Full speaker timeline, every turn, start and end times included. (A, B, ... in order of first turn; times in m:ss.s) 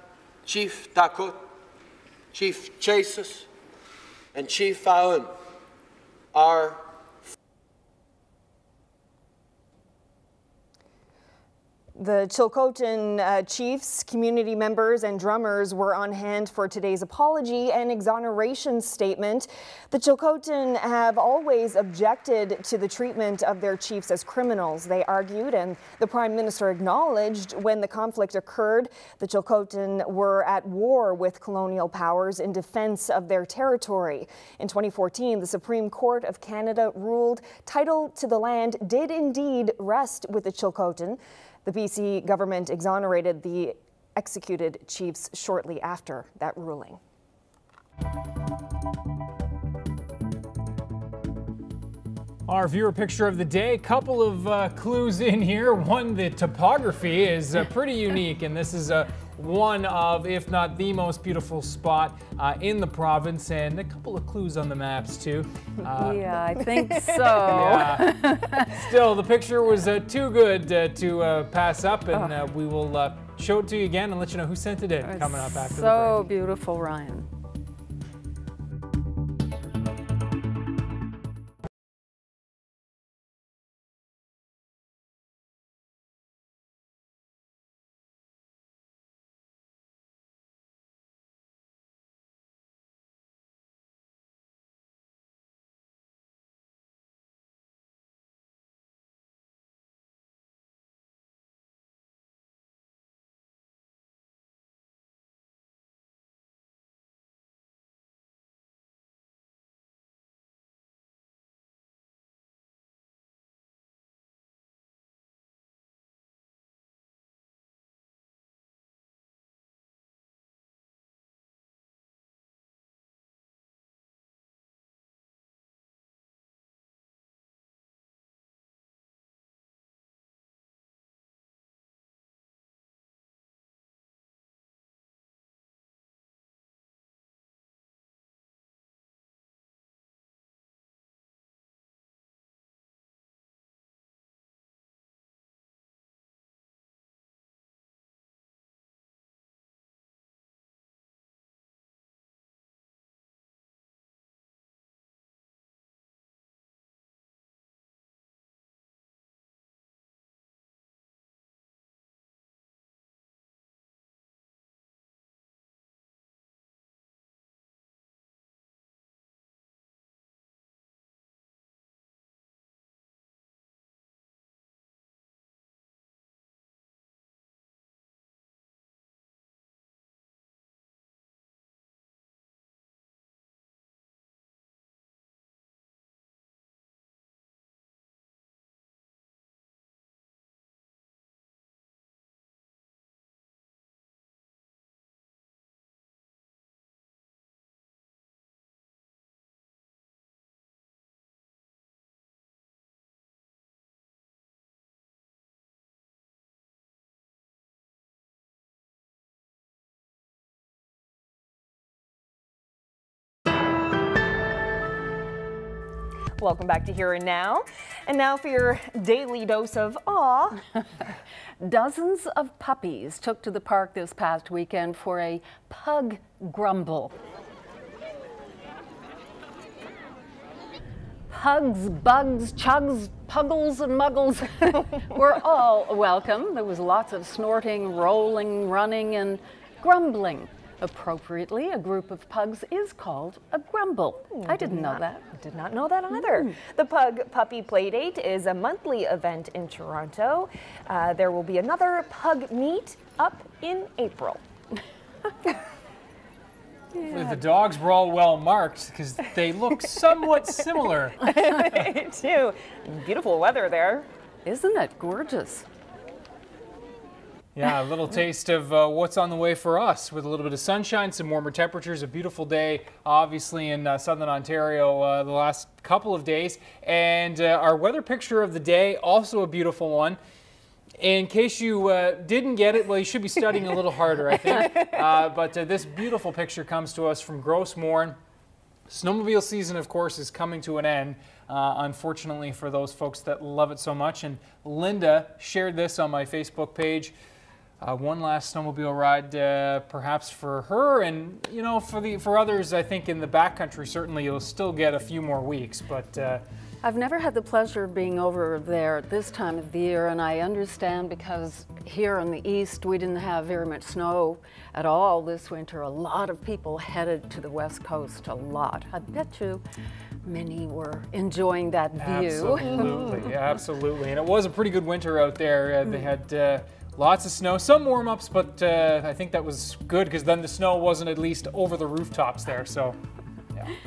0:00.4-0:01.4 A
0:02.3-0:03.4 A
0:04.3-0:05.3 A
0:06.3-0:06.8 A
0:12.0-0:47.0 B
0:52.5-1:06.3 C
1:06.0-1:08.7 D
1:07.3-1:16.3 C
1:12.1-1:12.4 D
1:15.0-1:17.3 D
3:36.4-3:40.6 B
3:41.6-3:47.1 D
3:51.3-4:05.2 D
4:04.3-4:14.4 B
4:06.1-4:06.6 D
4:16.9-4:17.4 D
4:17.1-4:21.2 C
4:21.2-4:24.1 B
4:24.4-4:25.6 D
4:27.5-4:40.2 C
4:41.0-4:48.2 C
4:48.9-4:57.1 C
4:57.8-5:06.4 C
5:06.8-5:19.6 D
5:20.2-5:23.2 D
5:22.0-5:33.0 C
5:25.8-5:26.1 D